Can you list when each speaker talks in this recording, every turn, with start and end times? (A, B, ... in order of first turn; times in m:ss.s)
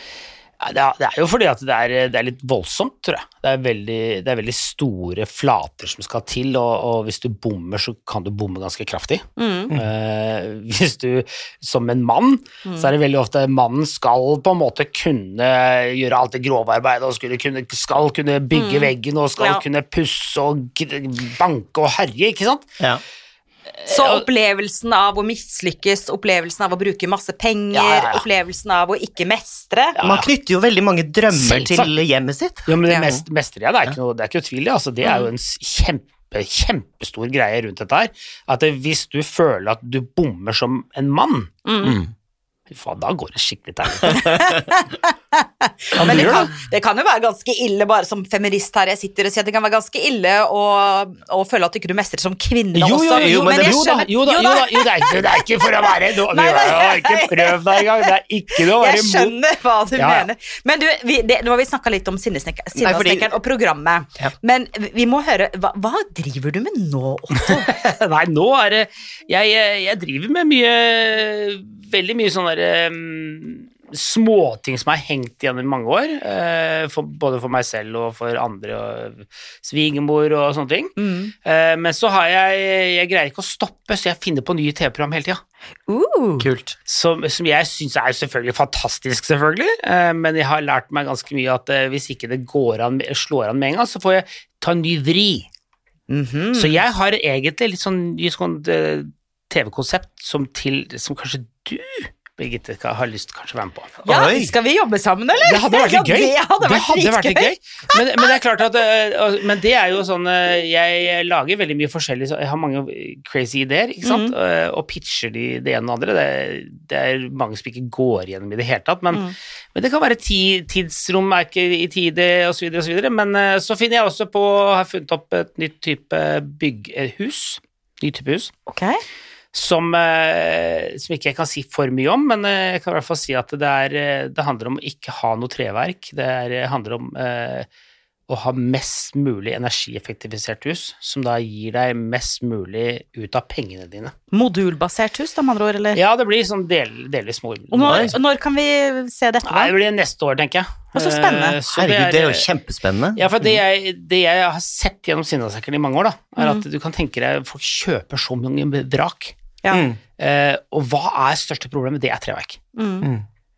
0:00.6-0:22.7 A
0:09.4-0:09.7 B
0:12.6-0:12.9 B
0:18.5-0:19.6 B
0:23.8-0:24.2 A
0:23.9-0:30.0 B
0:27.7-0:28.2 A
0:29.9-0:30.3 A
0:30.0-0:33.2 C
0:31.3-0:31.9 A
0:32.7-0:42.1 A
0:35.0-0:35.3 B
0:41.6-0:42.0 B
0:42.7-0:44.2 A
0:44.1-1:07.7 B
0:46.0-0:46.5 A
0:52.7-0:59.3 A
0:53.1-0:53.8 C
1:00.0-1:00.3 A
1:02.8-1:03.3 C
1:07.4-1:25.4 A
1:21.0-1:21.3 B
1:25.9-1:26.5 B
1:26.4-1:26.7 C
1:26.8-1:35.5 A
1:36.1-1:36.8 B
1:36.5-1:44.0 A
1:44.0-1:44.5 C
1:44.0-1:48.3 B
1:45.4-2:08.5 A
1:54.0-1:54.3 B
2:08.7-2:09.0 B
2:09.5-2:17.7 A
2:18.3-2:24.1 A
2:24.3-2:26.0 B
2:25.9-2:28.1 A
2:27.7-2:29.7 B
2:27.8-2:28.1 C
2:29.4-2:32.5 A
2:30.9-2:31.6 B
2:31.7-2:33.6 C
2:33.2-2:39.4 A
2:36.4-2:36.6 B
2:39.7-2:40.0 C
2:40.2-2:42.6 A
2:42.7-2:43.1 B